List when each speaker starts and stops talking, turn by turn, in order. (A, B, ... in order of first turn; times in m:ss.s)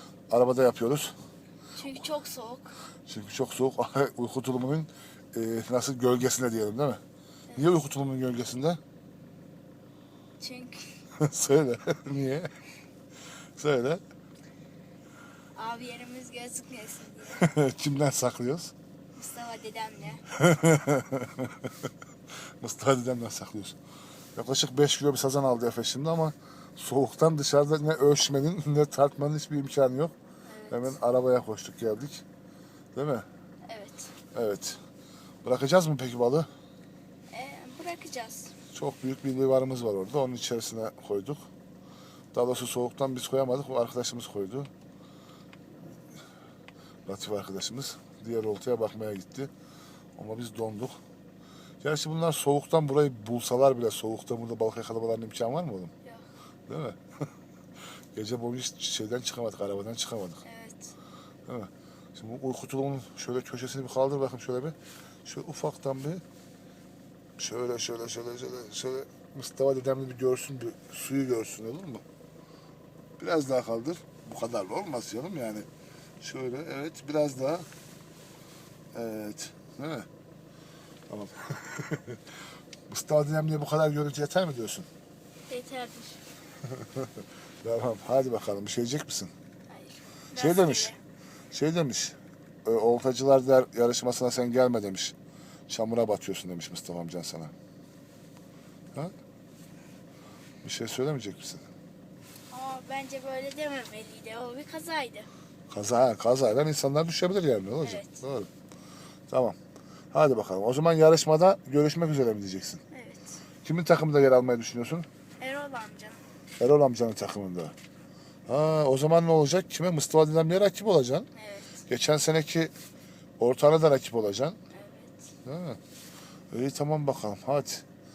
0:00.3-0:01.2 A
0:01.8-0:02.8 B
0:03.1-0:07.0 A
0:07.6-0:08.8 A
0:10.4-0:11.0 B
0:11.2-0:12.5 A
0:13.6-0:14.0 A
0:15.5-0:17.4 B
0:17.3-0:18.7 A
0:19.1-0:20.2 B
0:20.3-0:21.7 A
0:22.6-0:23.8 A
0:24.3-0:30.1 A
0:30.5-0:31.0 B
0:30.7-0:32.2 A
0:32.9-0:33.3 A
0:33.7-0:34.1 B
0:34.3-0:34.8 A
0:35.4-0:36.5 A
0:37.3-0:38.5 B
0:38.7-0:41.4 A
0:42.3-0:44.7 A
0:47.0-0:49.5 A
0:50.2-0:51.0 A
0:51.8-0:55.9 A
0:56.7-0:57.0 A
0:58.1-1:00.4 A
1:00.4-1:00.9 B
1:01.5-1:06.2 A
1:07.4-1:12.0 A
1:13.2-1:15.7 A
1:16.2-1:17.7 A
1:18.9-1:20.1 A
1:21.1-1:22.2 A
1:22.9-1:24.9 A
1:25.5-1:26.2 B
1:26.8-1:27.1 A
1:27.6-1:29.3 A
1:29.7-1:31.0 B
1:30.4-1:31.0 A
1:31.5-1:35.1 A
1:35.7-1:37.5 A
1:40.6-1:41.7 A
1:42.5-1:45.3 B
1:45.7-1:48.5 A
1:47.8-1:48.2 B
1:49.3-1:49.6 A
1:50.1-1:52.8 A
1:52.9-1:53.4 B
1:53.6-1:55.1 A
1:55.4-1:56.2 B
1:56.6-1:57.7 A
1:58.5-2:01.3 A
2:01.3-2:01.8 B
2:01.9-2:02.7 A
2:03.4-2:04.6 A
2:04.7-2:05.3 B
2:05.4-2:05.8 A
2:06.5-2:07.8 A